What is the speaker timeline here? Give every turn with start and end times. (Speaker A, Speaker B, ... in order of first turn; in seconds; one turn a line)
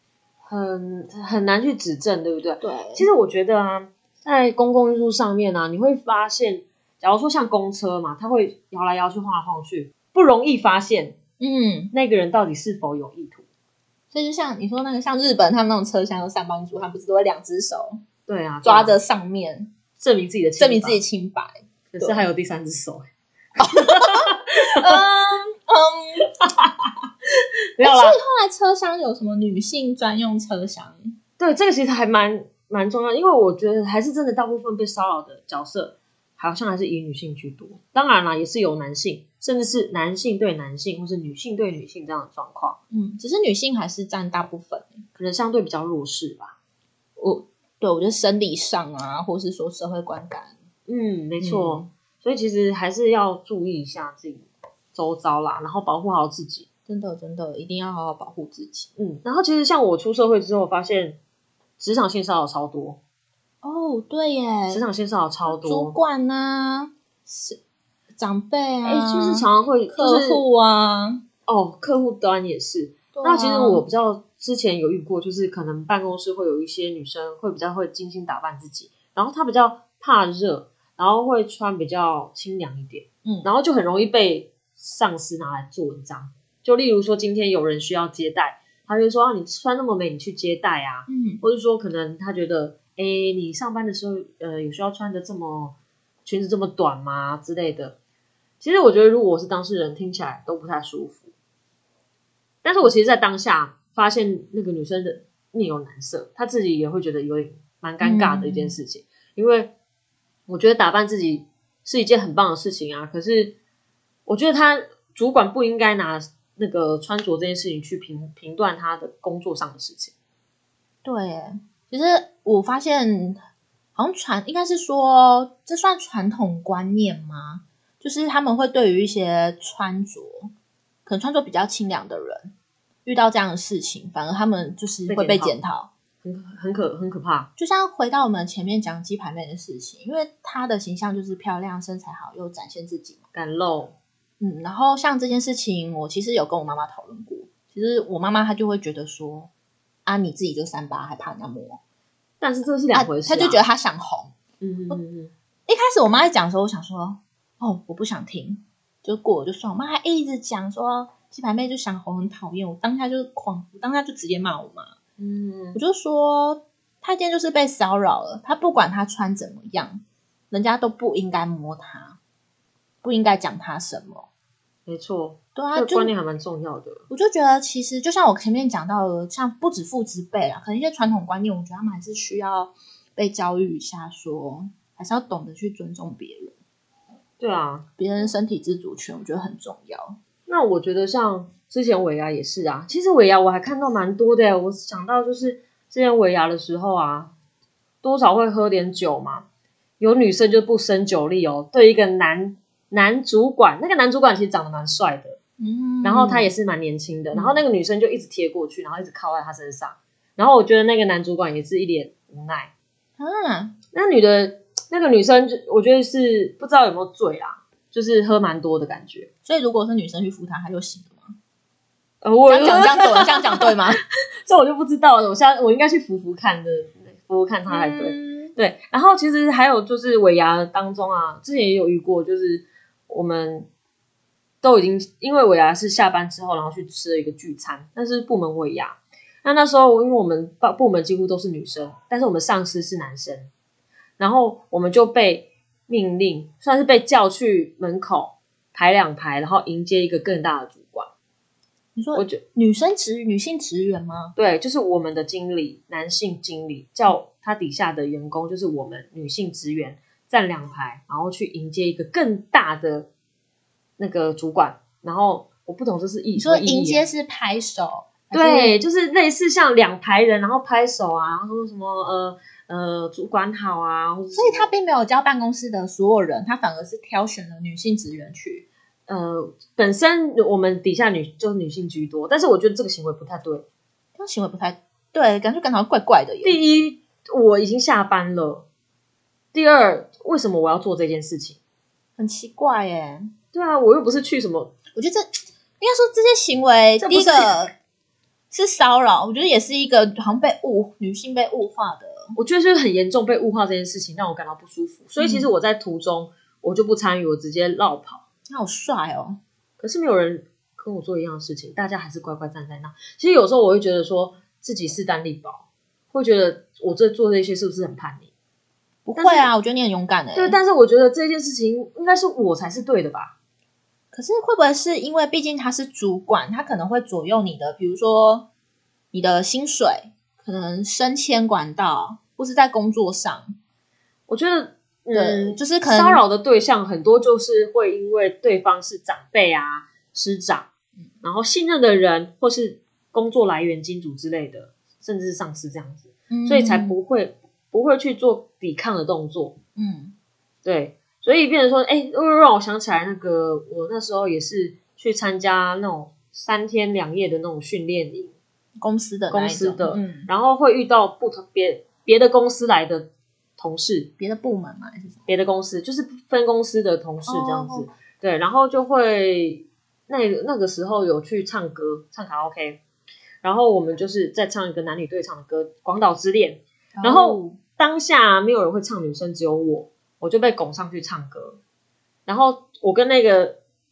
Speaker A: 0.4-11.2
Speaker B: 2.6-3.1
Speaker B: 11.4-11.9
Speaker A: 11.9-13.4
Speaker B: 14.1-18.0
Speaker A: 18.3-19.0
Speaker B: 18.6-19.7
Speaker A: 19.9-21.0
Speaker B: 20.6-22.2
Speaker A: 21.9-23.0
Speaker B: 23.6-26.2
Speaker A: 23.6-25.0
Speaker A: 26.2-28.2
Speaker B: 27.8-31.1
Speaker A: 31.4-42.8
Speaker B: 42.9-45.0
Speaker A: 45.1-46.5
Speaker B: 47.2-50.5
Speaker A: 50.9-56.7
Speaker B: 51.4-51.9
Speaker B: 56.9-58.9
Speaker A: 59.0-61.2
Speaker A: 61.8-63.0
Speaker B: 63.6-64.8
Speaker A: 64.7-66.0
Speaker B: 65.5-67.6
Speaker B: 68.2-71.2
Speaker A: 68.8-70.4
Speaker A: 71.5-98.0
Speaker B: 73.1-73.8
Speaker B: 91.1-91.4
Speaker A: 98.6-101.3
Speaker A: 102.6-109.7
Speaker B: 108.0-108.8
Speaker A: 110.5-113.5
Speaker A: 114.2-120.1
Speaker B: 121.0-123.4
Speaker B: 124.0-130.5
Speaker B: 131.1-132.5
Speaker B: 133.1-135.9
Speaker A: 135.1-135.6
Speaker A: 136.2-137.5
Speaker B: 137.6-143.2
Speaker A: 143.3-143.9
Speaker B: 144.4-149.5
Speaker B: 150.1-151.8
Speaker A: 152.4-153.6
Speaker B: 152.9-154.3
Speaker A: 154.6-155.3
Speaker B: 155.7-164.9
Speaker A: 165.2-165.8
Speaker B: 165.7-172.2
Speaker B: 173.0-174.3
Speaker A: 174.9-177.0
Speaker B: 175.5-176.1
Speaker B: 177.1-186.5
Speaker A: 187.4-187.8
Speaker B: 188.0-190.2
Speaker A: 190.5-197.3
Speaker A: 198.0-199.4
Speaker A: 200.0-205.4
Speaker B: 205.6-206.5
Speaker A: 206.0-212.7
Speaker B: 207.3-207.6
Speaker B: 213.2-213.7
Speaker A: 213.9-219.3
Speaker B: 219.4-221.3
Speaker A: 222.2-223.9
Speaker B: 222.5-224.0
Speaker A: 224.4-233.7
Speaker B: 227.7-228.5
Speaker A: 234.6-243.5
Speaker A: 244.2-251.1
Speaker B: 251.9-254.3
Speaker A: 252.1-252.4
Speaker A: 254.3-263.1
Speaker A: 264.0-267.0
Speaker B: 266.4-268.8
Speaker A: 268.3-274.7
Speaker B: 274.3-278.6
Speaker A: 279.1-283.6
Speaker B: 284.2-286.6
Speaker A: 286.4-288.7
Speaker A: 289.5-291.6
Speaker B: 292.2-293.3
Speaker A: 293.5-294.7
Speaker B: 294.9-295.3
Speaker B: 295.8-297.7
Speaker A: 297.0-297.6
Speaker B: 298.5-302.4
Speaker A: 302.3-308.2
Speaker B: 305.2-305.5
Speaker B: 308.5-309.4
Speaker A: 309.8-318.3
Speaker B: 319.0-320.6
Speaker A: 319.1-319.5
Speaker A: 320.3-323.3
Speaker B: 324.1-328.5
Speaker B: 329.1-333.6
Speaker A: 334.3-340.7
Speaker B: 335.1-336.2
Speaker A: 341.2-349.6
Speaker B: 346.3-346.9
Speaker B: 349.8-350.1
Speaker A: 350.6-358.4
Speaker B: 358.8-360.3
Speaker A: 359.3-364.1
Speaker B: 364.2-365.2
Speaker A: 365.3-372.8
Speaker B: 367.2-367.9
Speaker A: 373.4-381.6
Speaker B: 377.0-377.6
Speaker A: 382.2-383.6